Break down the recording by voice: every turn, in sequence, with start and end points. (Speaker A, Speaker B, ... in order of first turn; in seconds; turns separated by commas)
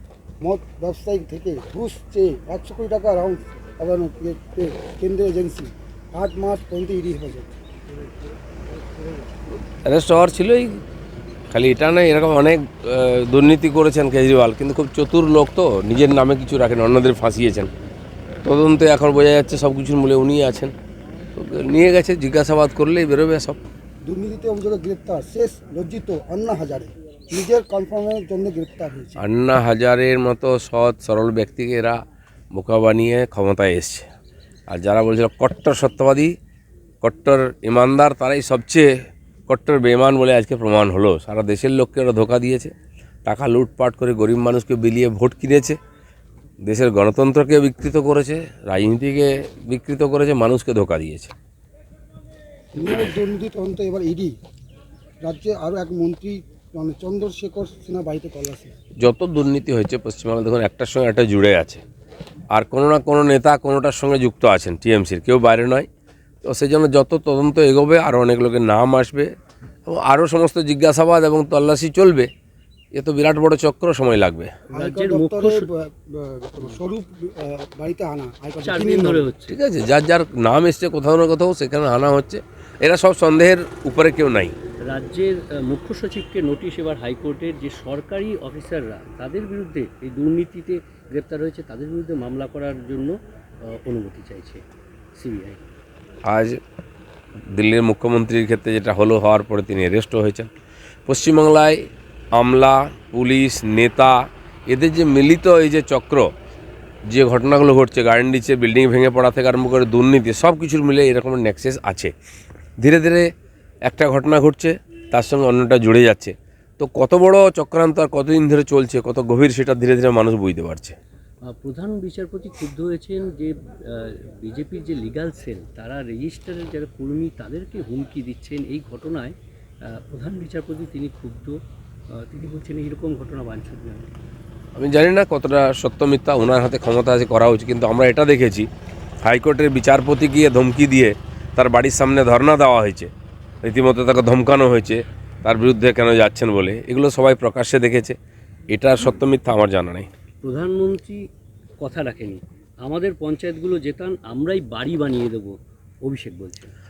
Speaker A: 0.4-7.6, Speaker B: 9.7-10.8, Speaker B: 11.5-17.7, Speaker B: 18.4-20.7, Speaker B: 21.4-23.6, Speaker A: 24.0-29.2, Speaker B: 29.2-32.0, Speaker B: 32.5-34.1, Speaker B: 34.7-36.4, Speaker B: 37.0-38.9, Speaker B: 39.5-42.7, Speaker B: 43.3-45.8, Speaker B: 46.6-51.3, Speaker A: 52.7-54.4, Speaker A: 55.2-58.7, Speaker B: 59.0-61.8, Speaker B: 62.5-65.9, Speaker B: 66.4-69.3, Speaker B: 69.9-72.3, Speaker B: 72.9-74.5, Speaker C: 74.7-75.7, Speaker A: 74.7-79.2, Speaker C: 78.6-79.6, Speaker B: 79.5-84.5, Speaker C: 84.8-93.2, Speaker C: 93.7-94.6, Speaker C: 95.2-95.6, Speaker B: 96.3-96.6, Speaker B: 97.5-100.5, Speaker B: 101.1-101.8, Speaker B: 102.3-106.3, Speaker B: 107.1-112.1, Speaker B: 112.8-113.3, Speaker B: 113.9-121.0, Speaker C: 121.5-129.3, Speaker C: 129.9-131.6, Speaker C: 132.1-134.1, Speaker B: 134.8-138.7, Speaker B: 139.2-143.1, Speaker B: 143.6-148.2, Speaker B: 148.7-150.1, Speaker C: 150.4-151.2, Speaker C: 151.8-156.7